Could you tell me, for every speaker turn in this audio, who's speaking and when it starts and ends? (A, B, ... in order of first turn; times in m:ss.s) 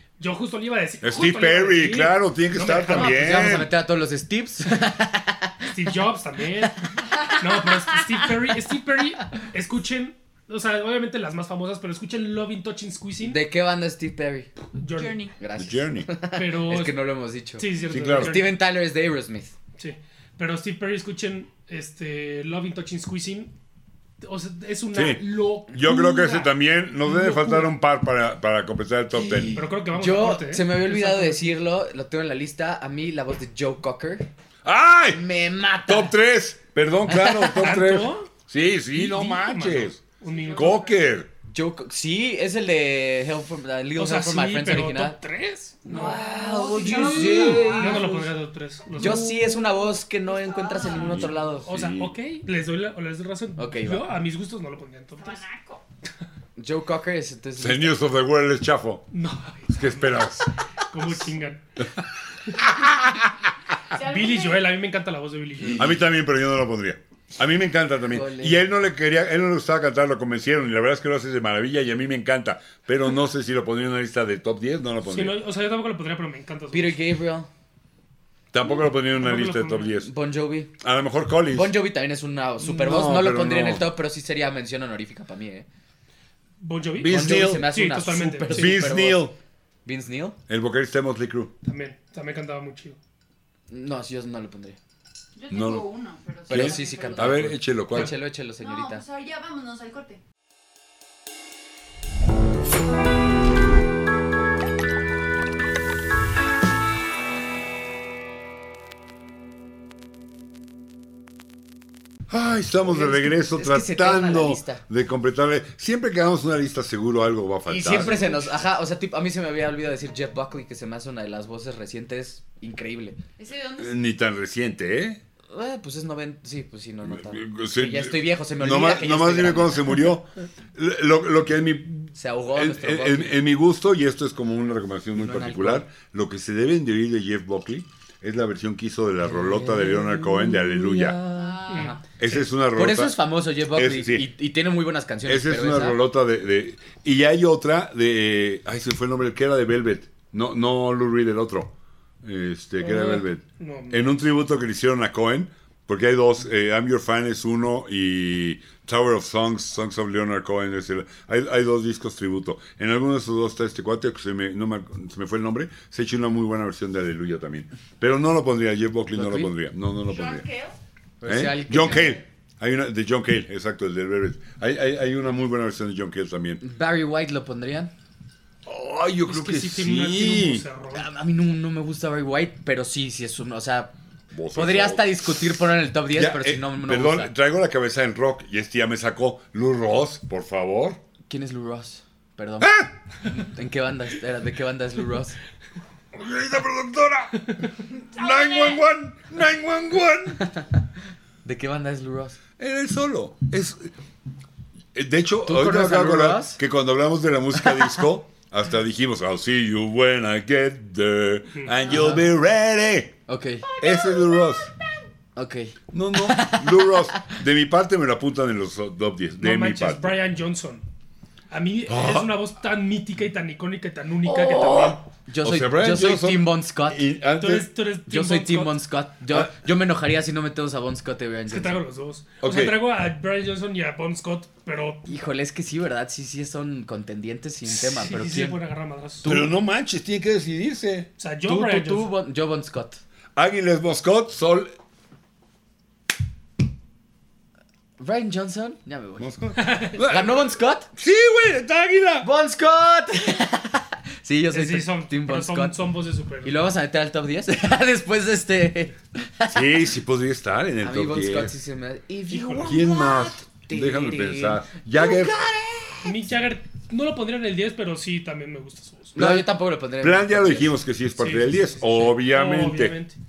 0:00.2-0:03.6 A
0:01.0-0:03.7 B
0:02.9-0:05.7 C
0:05.7-0:13.4 A
0:13.2-0:14.5 C
0:14.8-0:15.2 A
0:14.9-0:15.3 D
0:15.4-0:19.5 C
0:15.6-0:16.1 B
0:16.4-0:17.0 A
0:17.6-0:18.5 A
0:17.9-0:18.4 B
0:19.8-0:23.5 A
0:24.2-0:27.7 A
0:24.9-0:29.6 B
0:29.2-0:34.3 C
0:29.5-0:31.6 A
0:34.6-0:35.2 B
0:35.1-0:36.2 C
0:35.9-0:40.0 B
0:37.1-0:37.8 C
0:37.6-0:38.3 A
0:38.9-0:40.8 A
0:40.3-0:40.9 D
0:40.5-0:41.3 B
0:41.5-0:45.2 C
0:44.0-0:46.2 A
0:45.9-0:48.3 C
0:45.9-0:48.2 D
0:46.8-0:49.3 A
0:46.9-0:47.7 B
0:49.0-0:51.7 C
0:49.3-0:49.6 D
0:50.3-0:51.3 D
0:51.0-0:52.1 B
0:51.6-0:55.4 A
0:53.6-0:54.1 C
0:55.2-0:55.8 D
0:56.6-0:58.0 C
0:57.6-0:59.1 B
0:59.1-1:00.3 A
0:59.7-1:00.5 B
1:00.8-1:01.6 A
1:02.6-1:03.2 B
1:03.9-1:04.6 D
1:04.0-1:05.9 A
1:05.8-1:15.4 B
1:08.1-1:08.6 C
1:15.1-1:17.0 A
1:16.7-1:17.5 C
1:18.5-1:20.1 B
1:18.7-1:20.0 A
1:20.0-1:20.7 C
1:20.8-1:21.7 B
1:21.5-1:25.7 C
1:22.6-1:23.9 B
1:26.6-1:28.8 A
1:27.0-1:27.7 B
1:27.1-1:29.3 C
1:28.5-1:29.4 B
1:29.8-1:30.4 C
1:30.5-1:31.5 B
1:31.6-1:33.0 A
1:33.7-1:34.8 C
1:35.4-1:37.4 D
1:35.5-1:35.9 B
1:36.5-1:38.1 B
1:36.5-1:39.0 C
1:38.6-1:40.2 D
1:52.3-1:58.3 B
1:52.8-1:54.8 C
1:57.7-2:03.2 C
2:03.4-2:04.0 D
2:03.8-2:05.2 B
2:05.5-2:10.1 C
2:07.0-2:21.2 B
2:12.2-2:13.4 C
2:15.2-2:15.9 C
2:19.2-2:26.0 C
2:21.4-2:22.0 D
2:21.7-2:22.0 A
2:22.2-2:23.2 B
2:23.7-2:24.3 B
2:25.3-2:31.7 B
2:32.2-2:50.5 B
2:32.8-2:34.1 A
2:49.1-2:49.5 C
2:50.1-2:50.7 D
2:51.2-2:52.2 C
2:51.3-2:56.6 B
2:56.6-2:57.9 C
2:58.6-3:00.6 B
2:59.3-3:01.1 A
3:00.9-3:03.9 C
3:04.3-3:05.3 B
3:04.5-3:07.3 C
3:06.1-3:11.0 B
3:11.3-3:12.7 C
3:12.6-3:12.9 B
3:13.3-3:15.4 C
3:16.1-3:20.4 B
3:18.1-3:18.8 D
3:20.4-3:20.7 C
3:21.4-3:22.4 C
3:22.6-3:23.9 B
3:25.0-3:33.2 B
3:25.4-3:26.6 C
3:27.6-3:28.0 C
3:31.9-3:32.3 C
3:33.3-3:33.7 C
3:33.8-3:34.7 D
3:33.8-3:34.7 B
3:35.4-3:37.3 C
3:35.9-3:40.2 B
3:39.4-3:40.8 A
3:41.5-3:45.0 A
3:41.9-3:42.3 B
3:44.4-3:47.7 B
3:45.3-3:47.0 C
3:47.4-3:48.8 A
3:48.1-3:51.8 C
3:51.5-3:55.1 A
3:52.4-3:52.8 B
3:55.0-3:58.6 C
3:57.7-3:59.3 A
3:59.2-3:59.5 C
3:59.2-4:01.1 B
4:01.2-4:02.1 A
4:01.4-4:03.0 C
4:03.4-4:04.7 B
4:08.0-4:09.3 C
4:09.2-4:12.3 B
4:09.6-4:10.0 A
4:09.9-4:10.9 C
4:12.2-4:15.8 C
4:14.5-4:16.6 A
4:16.4-4:19.8 C
4:19.5-4:21.5 B
4:20.8-4:26.2 C
4:22.3-4:22.8 A
4:22.6-4:25.4 B
4:26.0-4:29.2 A
4:29.2-4:30.8 C
4:29.2-4:33.0 B
4:31.2-4:33.2 A